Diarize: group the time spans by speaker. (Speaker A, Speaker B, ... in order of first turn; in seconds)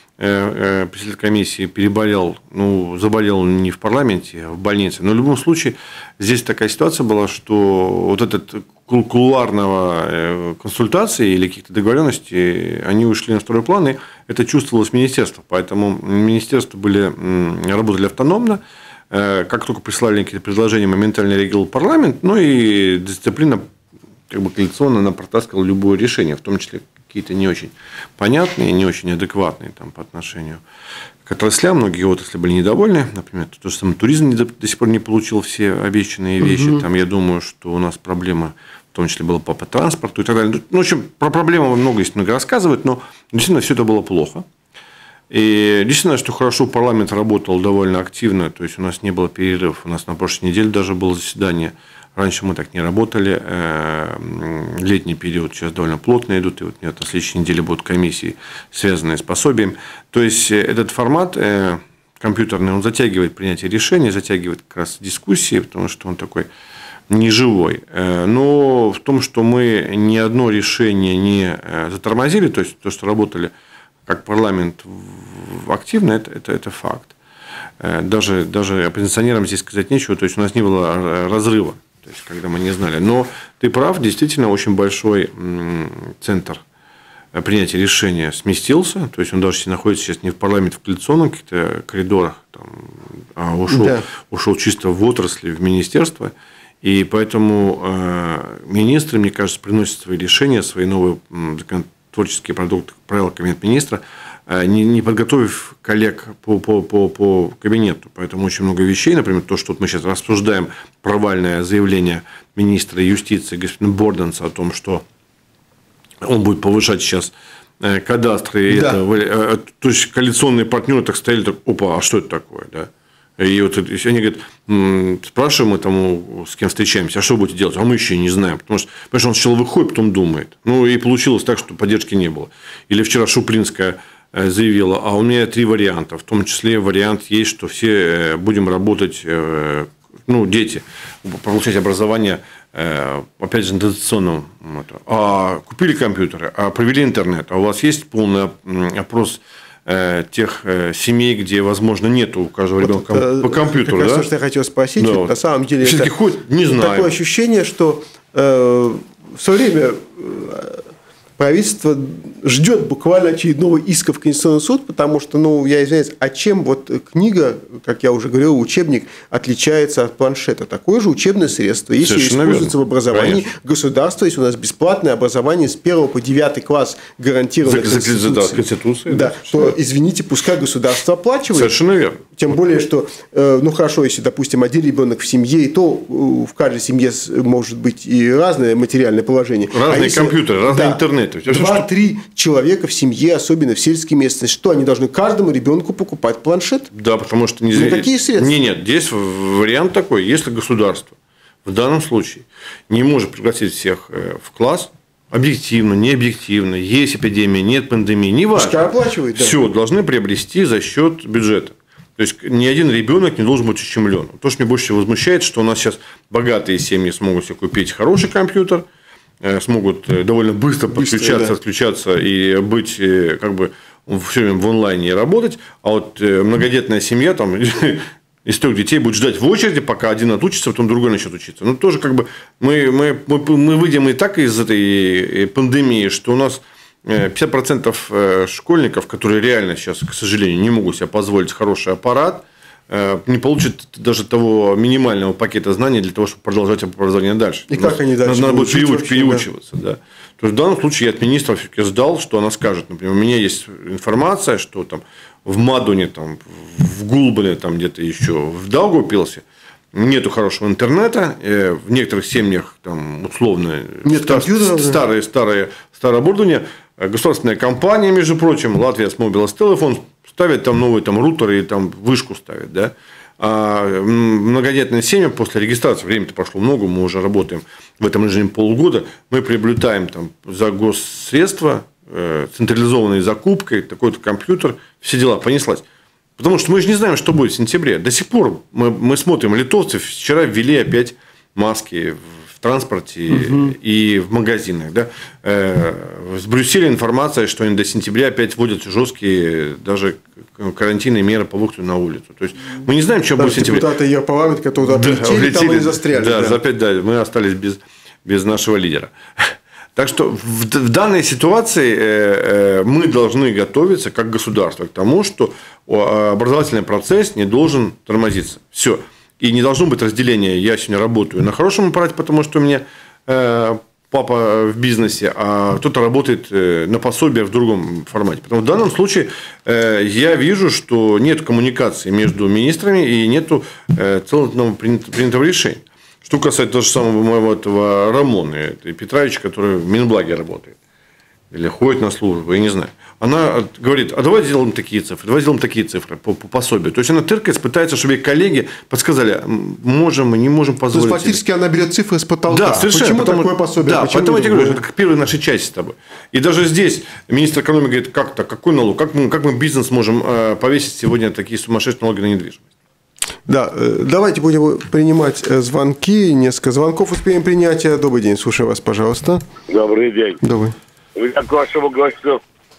Speaker A: 0.2-23.7, 24.3-30.6, 31.3-44.5, 45.3-66.5, 67.1-73.5, 74.1-77.1, 77.8-86.6, 87.3-115.0, 116.2-154.3, 155.0-157.1, 172.0-173.4, 177.6-179.7, 181.5-182.2, 189.7-191.9, 196.9-201.1, 201.7-218.8, 219.4-285.8, 286.4-303.9, 304.9-340.8, 341.5-351.4, 352.5-362.6
Speaker B: 36.4-36.8, 93.7-94.0, 118.7-119.0, 152.8-156.1, 156.7-160.9, 161.4-196.9, 197.7-198.5, 208.6-209.6, 220.9-221.6, 247.7-249.5, 264.0-265.0, 293.3-293.7, 303.4-306.6, 350.9-354.8, 363.5-369.4, 370.4-370.8
Speaker C: 369.7-370.4, 371.2-372.4